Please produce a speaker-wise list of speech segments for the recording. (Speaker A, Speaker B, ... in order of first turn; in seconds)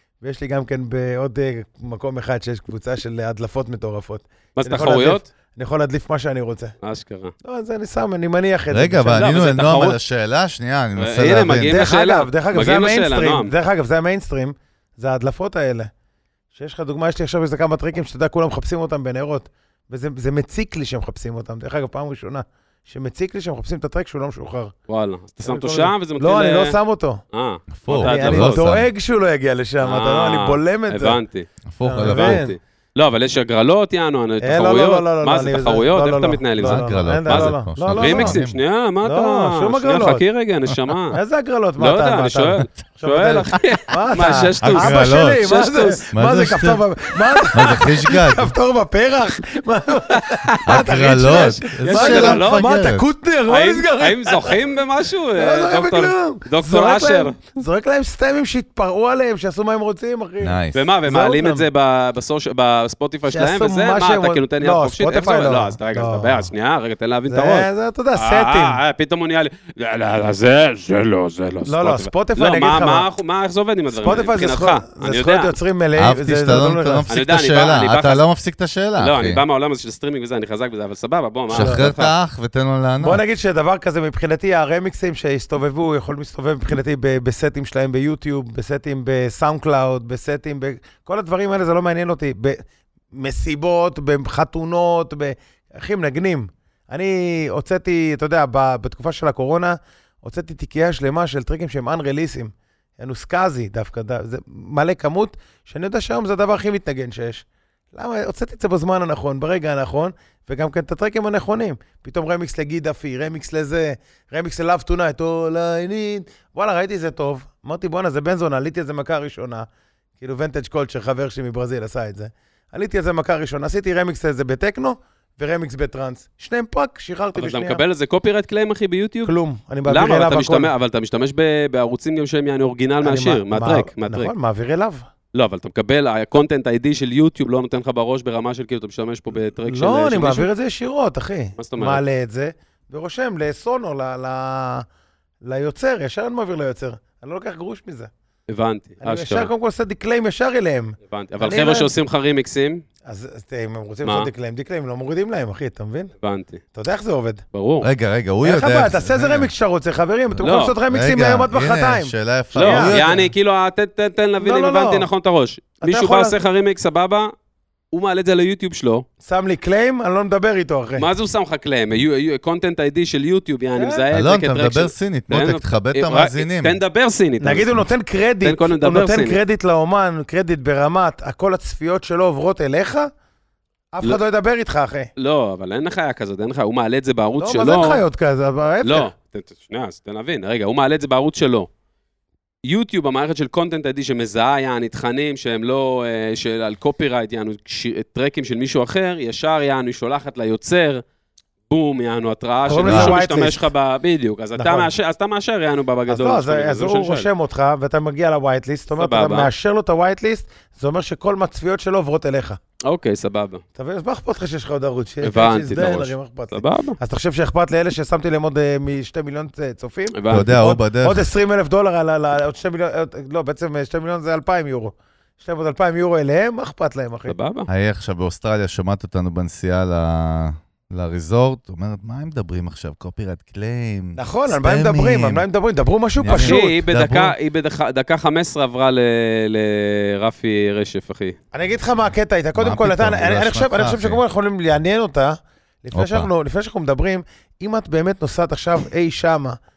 Speaker A: 0.2-6.7, 7.4-9.3, 11.6-15.9, 16.5-24.7, 25.4-27.2, 27.9-31.2, 31.8-32.5, 34.4-38.4, 39.0-40.2, 41.1-54.6, 55.4-61.7, 63.3-66.5, 67.3-68.8, 71.6-73.0, 73.9-77.1, 81.5-81.9, 83.0-119.7, 120.2-127.8, 129.2-130.7, 133.0-135.0, 139.6-144.8, 145.4-148.1, 149.0-151.9, 153.1-156.1, 156.7-157.4, 158.4-163.0, 164.4-165.1, 165.8-166.4, 169.2-171.1, 173.8-174.0, 177.4-183.1, 183.9-185.1, 187.4-189.1, 202.7-203.7, 204.6-204.9, 206.1-212.6, 213.8-227.3, 234.1-236.7, 241.5-249.6
Speaker B: 4.5-5.2, 6.8-7.3, 9.1-10.0, 11.0-13.5, 24.9-26.8, 27.3-28.6, 29.8-31.5, 32.0-41.2, 41.8-46.0, 50.1-52.7, 53.5-57.4, 60.7-75.5, 77.1-78.2, 79.0-82.1, 127.3-129.3, 129.9-134.3, 135.3-140.5, 141.6-142.0, 148.5-149.5, 151.1-152.8, 156.2-156.6, 157.5-157.9, 160.4-160.8, 162.5-167.3, 167.9-169.0, 171.0-177.8, 178.4-179.4, 185.2-188.0, 188.8-191.7, 192.7-201.0, 201.7-207.3, 209.0-209.5, 212.8-213.6, 215.2-217.0, 220.1-220.5, 227.3-227.7, 236.3-241.3
Speaker C: 8.7-11.8, 27.7-28.9, 31.7-32.4, 36.6-38.6, 44.6-45.5, 46.1-46.8, 47.5-48.5, 50.6-53.0, 60.4-60.8, 76.0-79.4, 81.5-83.2, 157.8-159.5, 160.9-163.3, 174.1-176.8, 202.8-203.2, 220.3-221.3, 227.7-235.4, 236.2-237.3, 242.6-244.2, 245.9-246.3